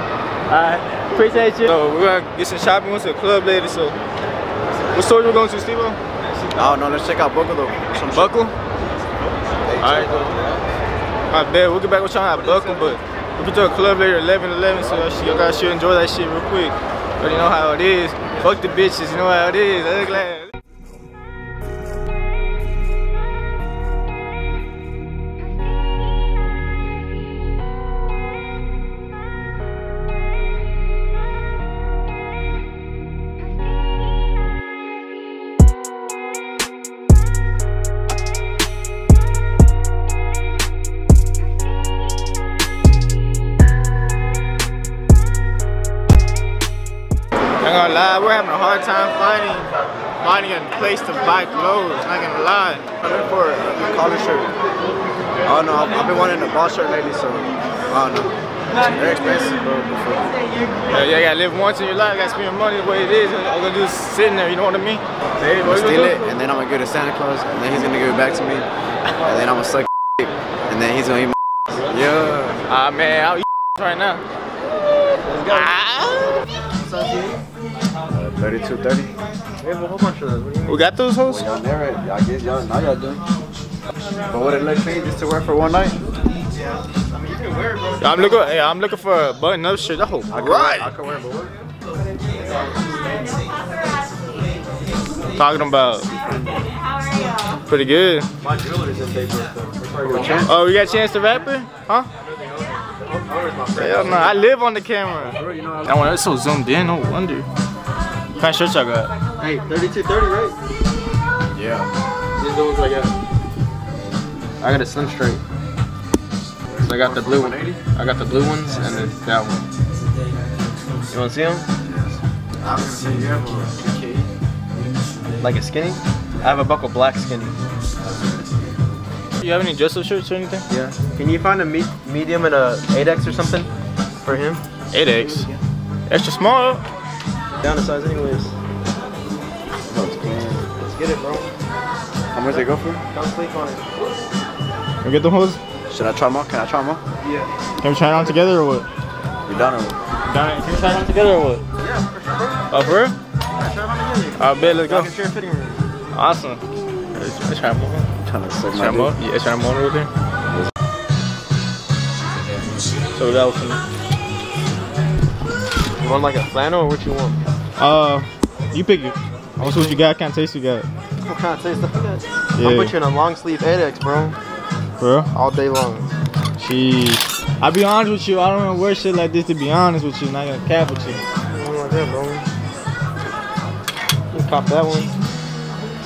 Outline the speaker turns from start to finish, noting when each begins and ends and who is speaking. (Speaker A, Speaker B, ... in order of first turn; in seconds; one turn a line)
Speaker A: 0.5-4.0
Speaker A: 4.9-6.0
Speaker B: 6.5-8.4
Speaker A: 8.1-8.5
Speaker A: 9.8-10.2
Speaker C: 10.0-10.4
Speaker A: 11.3-20.5
Speaker A: 47.6-52.9
Speaker B: 53.0-54.5
Speaker B: 55.5-60.3
Speaker A: 60.9-66.2
Speaker B: 65.7-68.7
Speaker B: 69.2-72.6
Speaker A: 72.7-74.2
Speaker B: 75.3-75.7
Speaker A: 75.5-76.5
Speaker B: 76.9-77.4
Speaker B: 78.1-79.1
Speaker C: 79.6-80.8
Speaker A: 80.7-81.5
Speaker B: 81.3-83.2
Speaker B: 84.3-86.0
Speaker C: 87.1-88.4
Speaker A: 88.0-90.9
Speaker B: 90.3-91.5
Speaker A: 95.4-96.1
Speaker A: 97.7-98.3
Speaker C: 98.4-100.5
Speaker B: 100.0-100.5
Speaker A: 100.4-102.1
Speaker C: 102.3-104.5
Speaker A: 103.8-107.5
Speaker B: 105.4-106.0
Speaker A: 108.4-109.1
Speaker C: 109.4-110.5
Speaker B: 111.5-111.9
Speaker C: 112.4-113.1
Speaker C: 114.6-115.4
Speaker B: 116.7-117.8
Speaker C: 116.8-119.6
Speaker C: 121.1-121.7
Speaker B: 121.8-124.3
Speaker C: 125.4-127.6
Speaker A: 129.4-130.7
Speaker C: 130.7-133.7
Speaker C: 134.2-134.6
Speaker A: 134.9-135.5
Speaker A: 136.1-136.8
Speaker C: 137.6-138.5
Speaker B: 139.9-140.7
Speaker C: 140.8-141.5
Speaker B: 142.3-143.0
Speaker C: 142.6-143.9
Speaker A: 145.0-145.6
Speaker B: 145.9-147.0
Speaker C: 147.2-147.5
Speaker A: 147.8-148.9
Speaker B: 149.5-150.0
Speaker A: 150.3-151.6
Speaker C: 151.8-152.9
Speaker A: 152.7-153.1
Speaker C: 153.6-155.8
Speaker A: 154.4-155.1
Speaker A: 156.1-158.1
Speaker B: 158.2-159.2
Speaker A: 158.7-160.1
Speaker A: 163.2-163.8
Speaker C: 166.0-167.4
Speaker A: 167.8-170.9
Speaker C: 169.6-170.0
Speaker C: 171.3-174.4
Speaker A: 172.6-172.9
Speaker A: 175.0-175.3
Speaker C: 175.3-176.1
Speaker A: 176.6-181.2
Speaker C: 181.5-182.4
Speaker C: 184.3-185.1